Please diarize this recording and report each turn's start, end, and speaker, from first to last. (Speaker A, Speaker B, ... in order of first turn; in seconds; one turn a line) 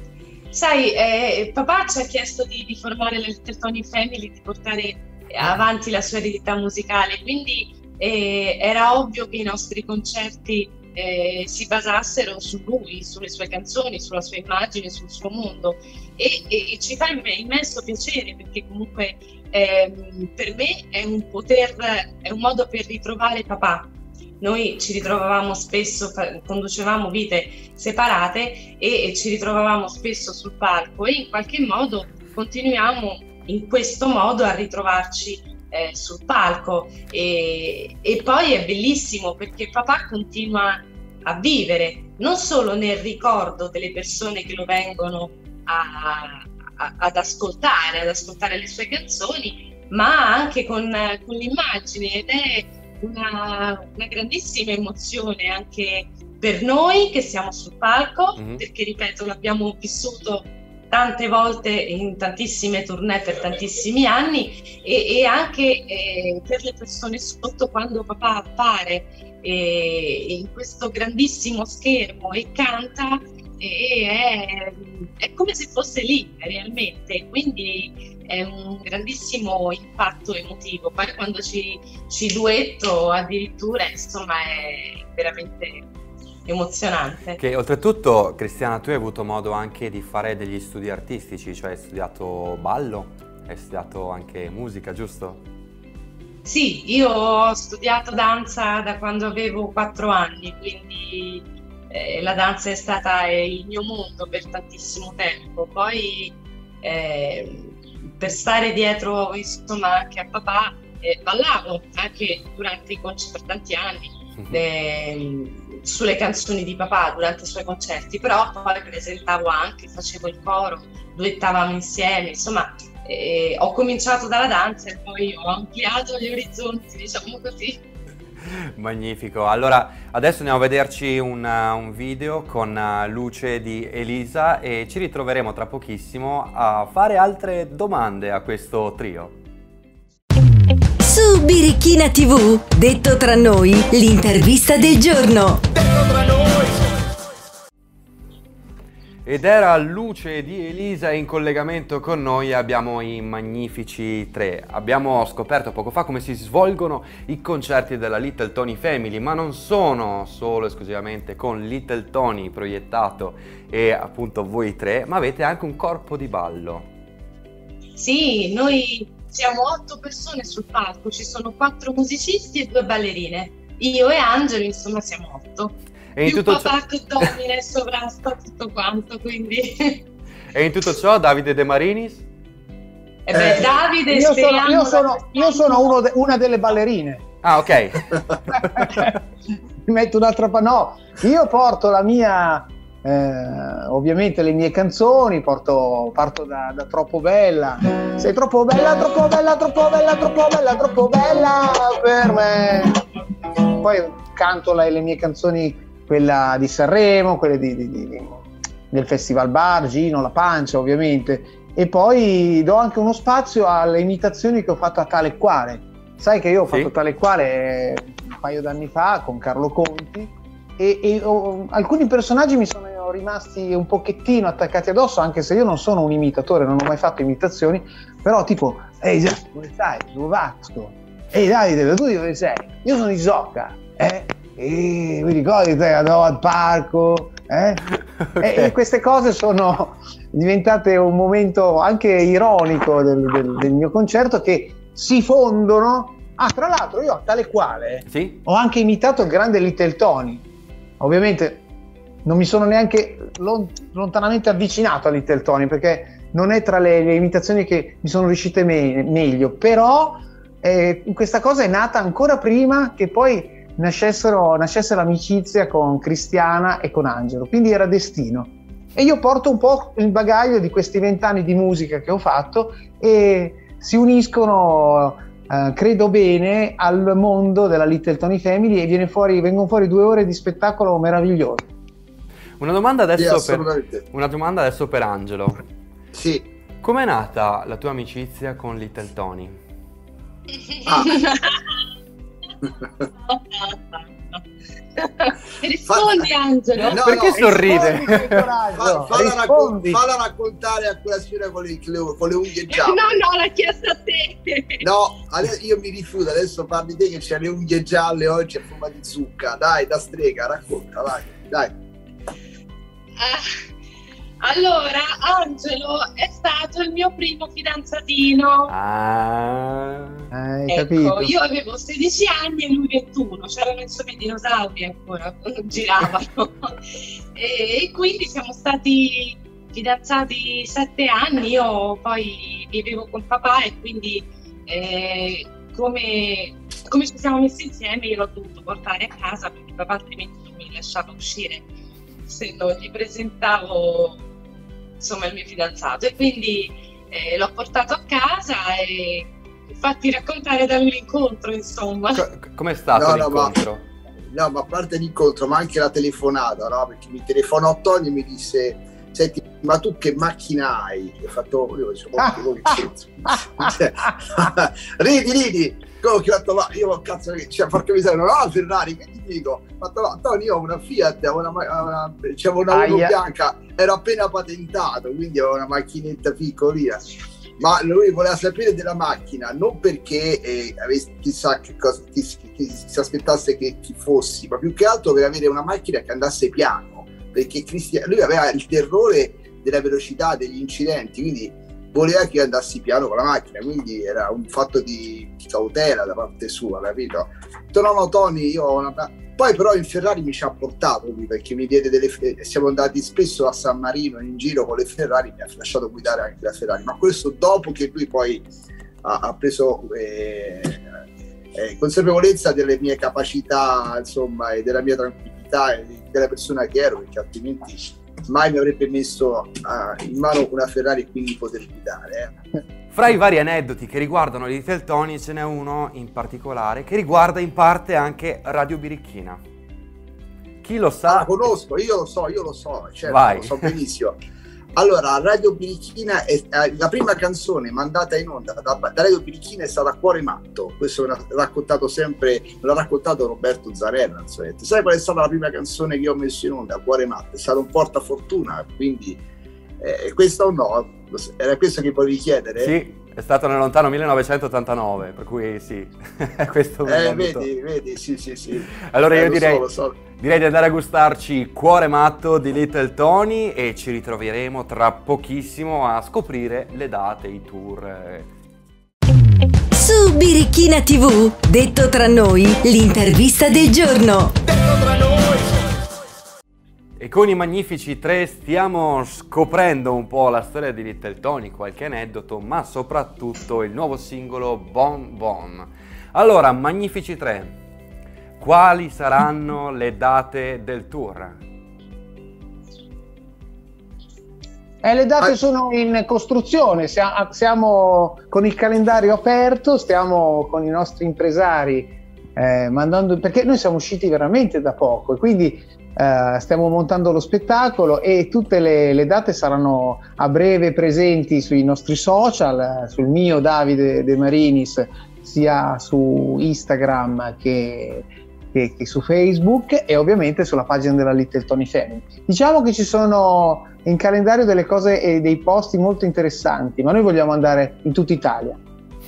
Speaker A: 0.5-85.9
Speaker B: 58.4-58.6
Speaker A: 86.5-87.4
Speaker B: 87.4-95.4
Speaker A: 96.5-127.8
Speaker B: 128.8-139.3
Speaker C: 141.0-145.7
Speaker B: 149.2-166.9
Speaker A: 168.0-180.0
Speaker B: 176.2-177.3
Speaker B: 180.5-182.3
Speaker A: 183.3-185.9
Speaker D: 183.3-183.7
Speaker E: 184.1-187.2
Speaker B: 187.4-189.1
Speaker E: 188.5-189.2
Speaker E: 189.9-203.0
Speaker E: 203.7-237.8
Speaker B: 238.2-238.7
Speaker E: 238.4-250.4
Speaker B: 248.1-248.4
Speaker E: 251.0-251.6
Speaker E: 252.2-281.7
Speaker B: 282.6-285.6
Speaker D: 283.2-284.0
Speaker D: 286.1-286.4
Speaker B: 286.8-289.6
Speaker A: 290.6-291.8
Speaker D: 290.9-291.2
Speaker A: 293.3-294.4
Speaker A: 295.0-297.0
Speaker D: 295.9-296.2
Speaker D: 296.9-297.9
Speaker B: 296.9-298.5
Speaker E: 297.0-300.0
Speaker D: 298.8-303.2
Speaker A: 302.7-304.9
Speaker D: 304.8-311.7
Speaker A: 313.2-313.7
Speaker A: 314.4-318.7
Speaker B: 318.7-320.3
Speaker E: 320.3-321.4
Speaker A: 320.7-341.7
Speaker A: 342.3-344.2
Speaker A: 345.0-352.2
Speaker B: 352.2-353.9
Speaker D: 352.9-353.5
Speaker D: 354.3-377.0
Speaker E: 362.2-364.4
Speaker E: 372.7-373.2
Speaker D: 377.6-408.5
Speaker D: 409.0-410.9
Speaker D: 411.6-422.3
Speaker B: 422.9-429.4
Speaker B: 430.6-431.5
Speaker D: 431.1-434.2
Speaker B: 433.1-433.7
Speaker D: 434.8-449.2
Speaker D: 449.8-452.7
Speaker B: 452.6-457.5
Speaker D: 456.9-460.0
Speaker B: 458.8-459.6
Speaker B: 460.1-468.3
Speaker C: 469.7-474.4
Speaker B: 477.0-487.6
Speaker B: 488.4-491.4
Speaker E: 494.8-528.6